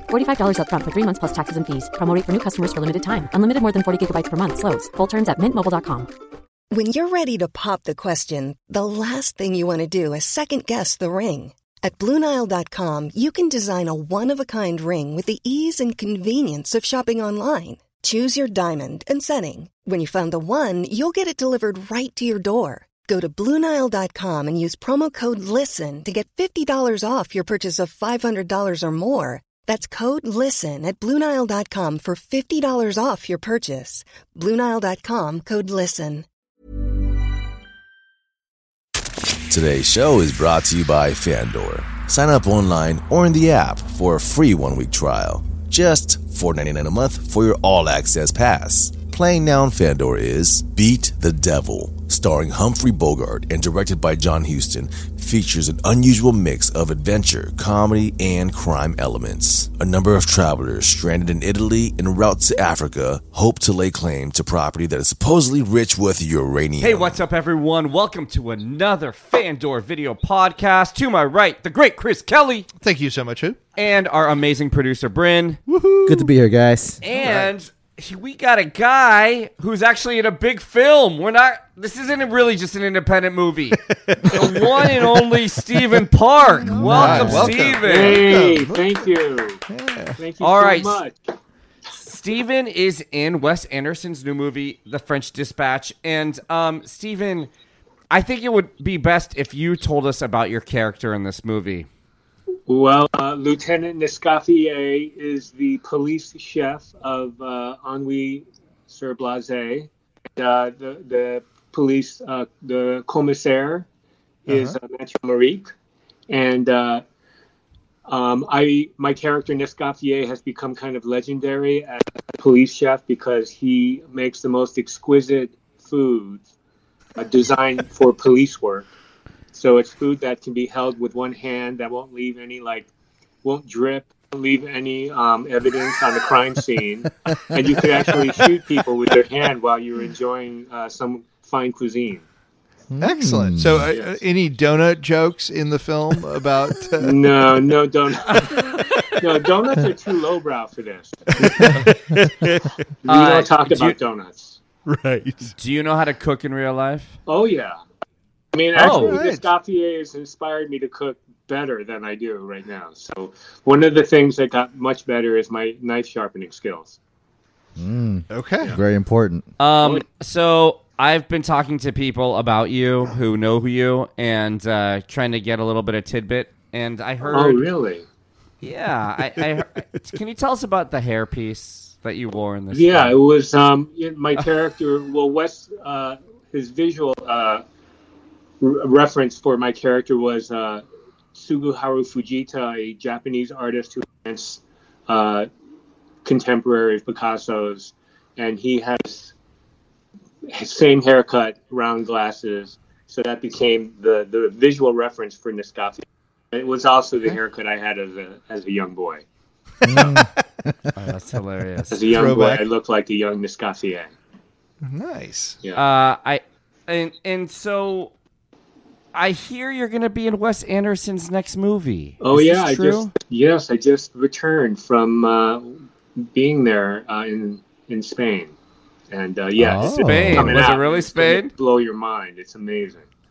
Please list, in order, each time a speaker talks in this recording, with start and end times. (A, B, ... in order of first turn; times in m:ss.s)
0:00.1-0:06.1 A
0:06.7-0:36.2 B
0:39.5-1:07.2 C
1:06.8-1:12.7 D
1:12.8-1:13.6 E
1:13.8-1:15.6 D
1:15.7-1:16.3 E
1:16.0-1:17.0 F
1:17.0-1:28.3 D
1:17.1-1:17.5 E
1:24.1-1:25.0 E
1:26.5-1:29.2 E
1:26.9-1:27.4 F
1:27.8-1:29.6 G
1:29.7-1:30.2 E
1:30.2-1:31.2 G
1:30.4-1:31.0 D
1:31.9-1:37.5 D
1:38.1-1:41.9 D
1:42.7-1:53.8 G
1:54.5-1:55.7 G
1:54.5-1:54.8 E
1:56.3-1:57.0 G
1:58.1-2:06.4 G
2:07.2-2:08.9 G
2:09.5-2:12.9 G
2:13.4-2:22.2 G
2:22.9-2:23.7 F
2:23.0-2:27.5 E
2:23.9-2:24.2 G
2:27.0-2:28.4 G
2:29.2-2:31.2 G
2:31.4-2:32.6 E
2:33.0-2:34.6 G
2:33.0-2:34.0 D
2:34.9-2:35.5 E
2:35.6-2:37.2 D
2:37.3-2:37.8 G
2:38.5-2:47.0 G
2:38.8-2:39.2 D
2:38.8-2:39.5 E
2:47.8-2:49.4 F
2:48.3-2:48.7 E
2:49.6-2:57.7 D
2:49.8-2:50.0 G
2:57.2-2:58.0 G
2:58.6-3:03.2 D
3:02.7-3:07.6 G
3:08.6-3:15.5 G
3:16.2-3:19.3 G
3:20.4-3:29.2 G
3:29.8-3:30.4 E
3:29.8-3:30.2 F
3:31.0-3:32.0 D
3:31.9-3:34.1 G
3:32.0-3:32.7 E
3:34.8-3:35.6 E
3:35.7-3:38.1 D
3:39.1-3:43.2 D
3:42.2-3:48.5 G
3:49.1-3:53.0 G
3:49.6-3:50.4 F
3:50.0-3:51.5 D